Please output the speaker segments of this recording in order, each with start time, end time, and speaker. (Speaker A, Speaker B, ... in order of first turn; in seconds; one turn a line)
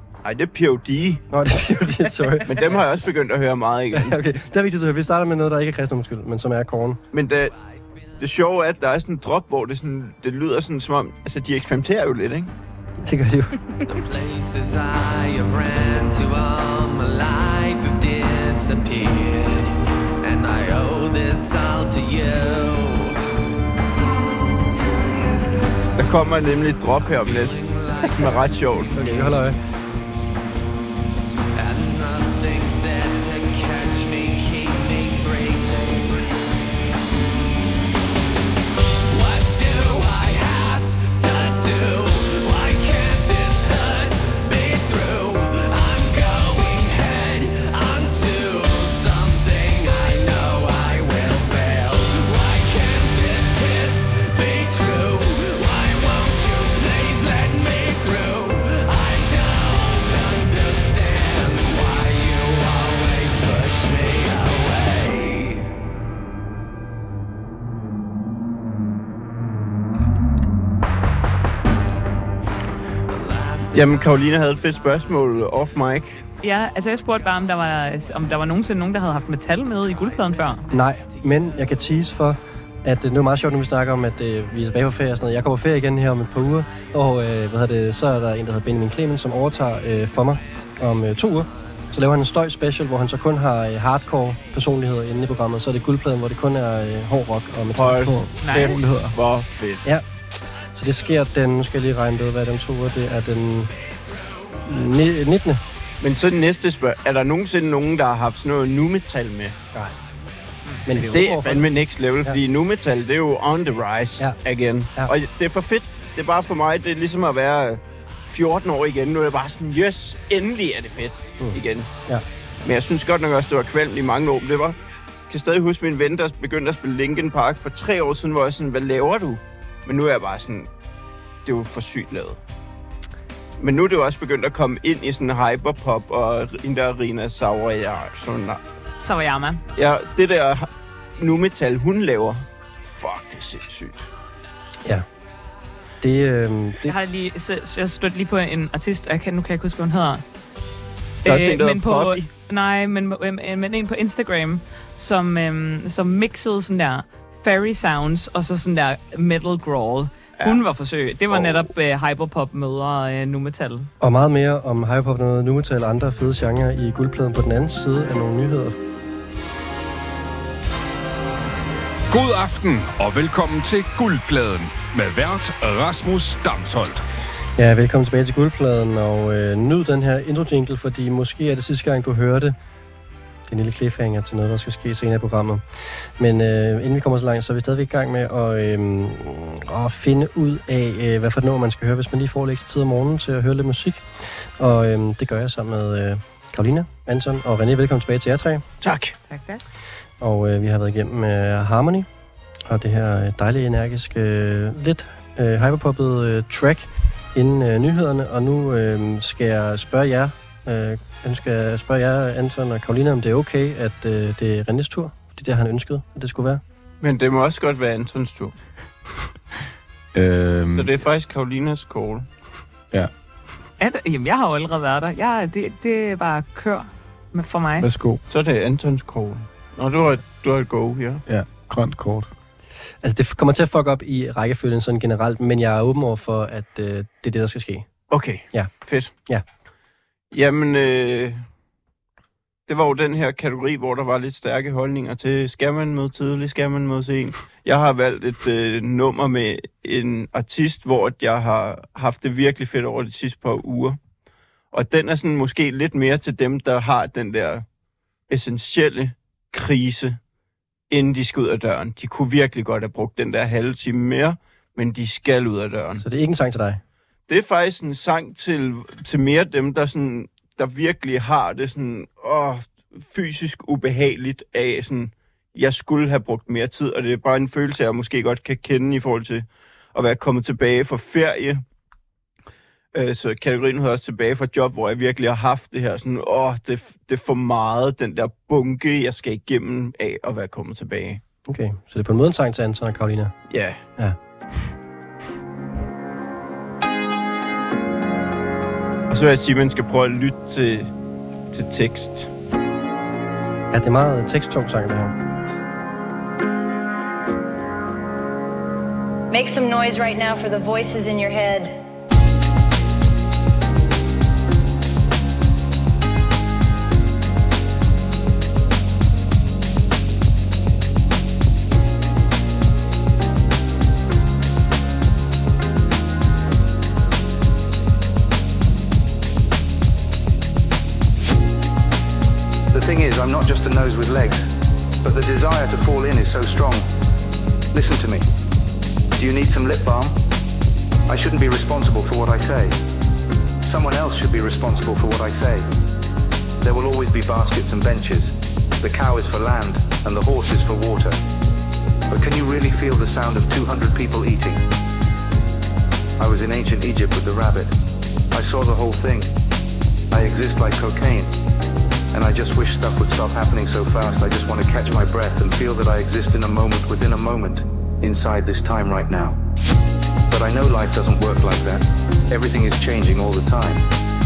Speaker A: 0.2-1.2
Speaker B: 1.3-2.9
Speaker A: 2.5-4.2
Speaker B: 3.9-7.0
Speaker A: 7.1-7.5
Speaker A: 8.2-12.5
Speaker B: 13.0-13.7
Speaker C: 13.8-23.2
Speaker A: 26.0-29.1
Speaker C: 27.0-29.4
Speaker B: 28.9-29.6
Speaker C: 31.5-36.4
Speaker C: 39.1-65.7
Speaker C: 73.1-76.2
Speaker A: 73.7-76.2
Speaker D: 76.4-80.6
Speaker C: 79.6-81.2
Speaker B: 80.7-98.2
Speaker A: 97.8-99.8
Speaker E: 98.1-99.2
Speaker D: 98.4-98.8
Speaker B: 100.7-103.7
Speaker B: 104.7-105.6
Speaker A: 106.0-109.6
Speaker B: 110.9-111.7
Speaker A: 111.1-121.9
Speaker B: 121.4-122.2
Speaker A: 122.6-124.8
Speaker A: 125.3-130.7
Speaker A: 131.4-132.4
Speaker A: 133.6-138.6
Speaker D: 139.0-139.6
Speaker A: 139.8-144.1
Speaker B: 146.0-146.9
Speaker D: 146.8-150.2
Speaker D: 151.2-163.9
Speaker A: 151.2-152.3
Speaker A: 161.3-161.7
Speaker B: 164.0-168.8
Speaker F: 172.1-177.0
Speaker B: 177.6-182.6
Speaker B: 183.5-185.6
Speaker B: 186.2-198.7
Speaker A: 198.8-199.2
Speaker D: 199.3-199.6
Speaker B: 200.2-202.1
Speaker B: 202.7-216.6
Speaker A: 217.0-218.6
Speaker E: 220.1-220.9
Speaker A: 220.7-222.3
Speaker D: 223.8-227.9
Speaker E: 227.8-228.2
Speaker A: 228.3-231.2
Speaker E: 231.3-232.3
Speaker B: 233.0-237.9
Speaker A: 238.1-239.1
Speaker A: 240.3-241.4
Speaker A: 242.7-254.0
Speaker A: 254.7-257.6
Speaker A: 258.3-260.2
Speaker A: 260.9-266.0
Speaker B: 266.0-266.8
Speaker A: 267.3-281.6
Speaker A: 282.9-291.2
Speaker B: 291.5-293.3
Speaker A: 293.5-293.8
Speaker A: 299.1-300.9
Speaker A: 301.5-302.3
Speaker B: 303.7-305.2
Speaker G: 309.3-311.8
Speaker H: 332.7-336.9
Speaker H: 337.7-338.3
Speaker H: 339.2-340.2
Speaker H: 341.1-342.8
Speaker H: 343.6-345.7
Speaker H: 346.6-351.2
Speaker H: 352.1-354.7
Speaker H: 356.2-357.8
Speaker H: 358.3-359.3
Speaker H: 360.1-361.3
Speaker H: 362.1-369.4
Speaker H: 370.3-373.9